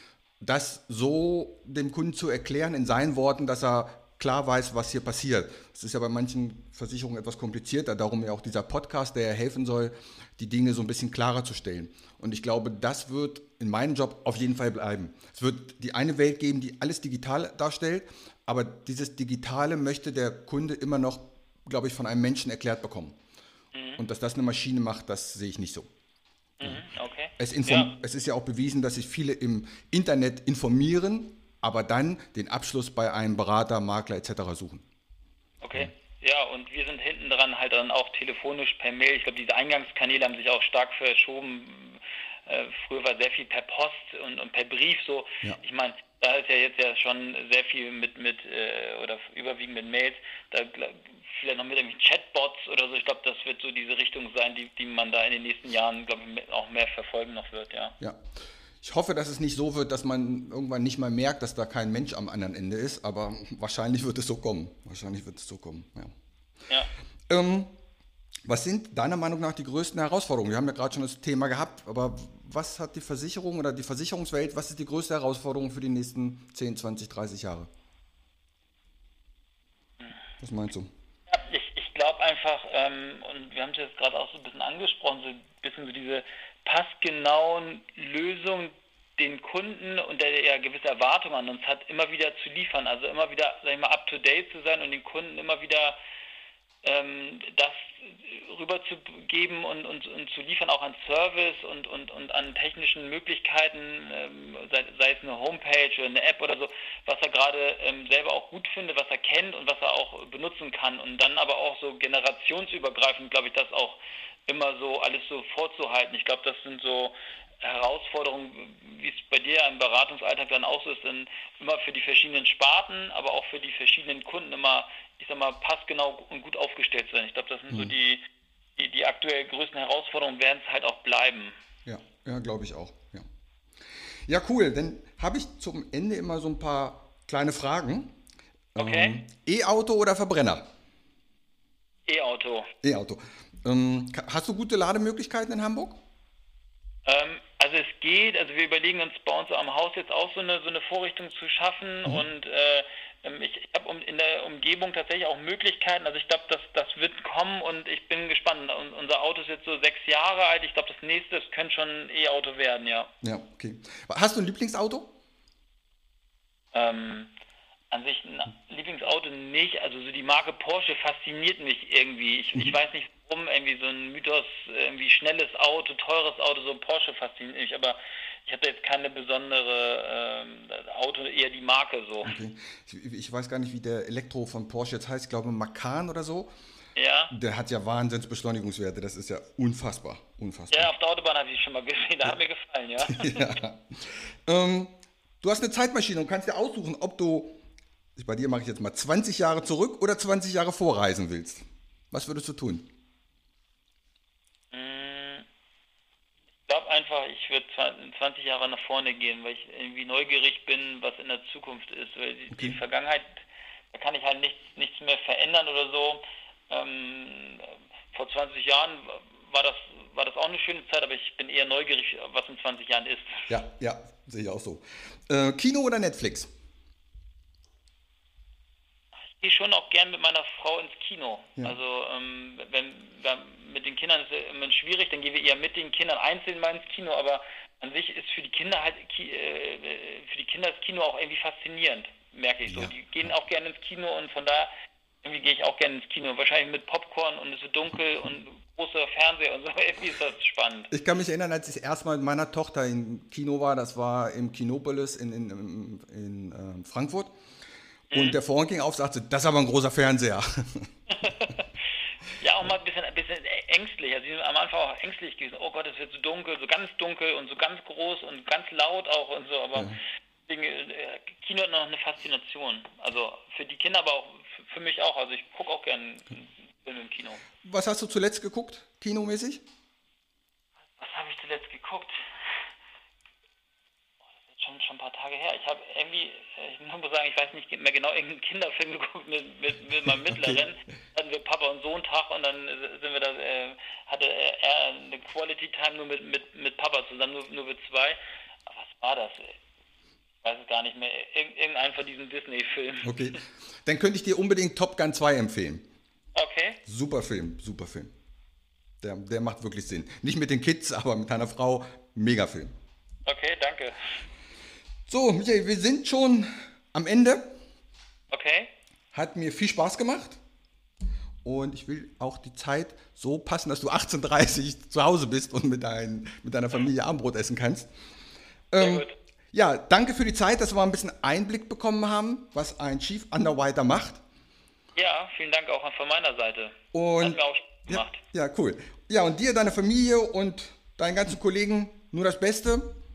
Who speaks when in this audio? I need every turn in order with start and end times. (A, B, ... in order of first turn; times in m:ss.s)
0:00.4-0:23.2 A
0:23.7-0:24.0 B
0:24.0-0:25.9 A
0:26.6-0:27.9 B
0:27.4-0:34.8 A
0:35.6-0:58.0 B
0:58.8-1:06.1 A
1:07.3-1:07.8 A
1:08.5-1:17.7 A
1:20.4-1:20.9 A
1:21.3-1:36.0 B
1:36.8-2:08.2 B
2:08.8-2:11.5 B
2:11.8-2:13.2 A
2:14.3-2:18.1 A
2:18.7-2:20.7 A
2:18.8-2:19.1 B
2:22.0-2:22.7 B
2:22.8-2:26.0 A
2:27.0-2:43.1 B
2:43.2-2:45.1 A
2:46.7-2:47.3 B
2:47.9-3:02.3 B
3:02.2-3:06.5 A
3:07.0-3:07.3 B
3:07.3-3:10.9 A
3:10.7-3:13.5 B
3:13.0-3:17.6 A
3:18.2-3:22.9 A
3:24.7-3:25.4 B
3:26.7-3:33.4 B
3:32.5-3:32.8 A
3:33.9-3:43.5 B
3:43.5-3:46.5 A
3:49.2-4:04.7 B
4:02.7-4:03.0 A
4:05.2-4:10.9 B
4:10.9-4:17.3 A
4:18.1-4:18.4 B
4:18.1-4:21.3 A
4:21.1-4:21.7 B
4:22.4-4:37.4 B
4:37.6-4:39.6 A
4:41.0-4:42.7 B
4:44.4-4:59.6 B
4:50.2-4:50.6 A
5:00.4-5:03.2 B
5:03.0-5:05.9 A
5:06.3-5:06.8 B
5:06.8-5:08.1 A
5:09.0-5:12.7 A
5:13.2-5:13.9 B
5:15.1-5:17.5 A
5:18.3-5:18.7 B
5:19.1-5:20.4 A
5:21.4-5:27.9 A
5:28.7-5:34.2 A
5:28.8-5:29.1 B
5:34.9-5:38.2 B
5:36.9-5:42.9 A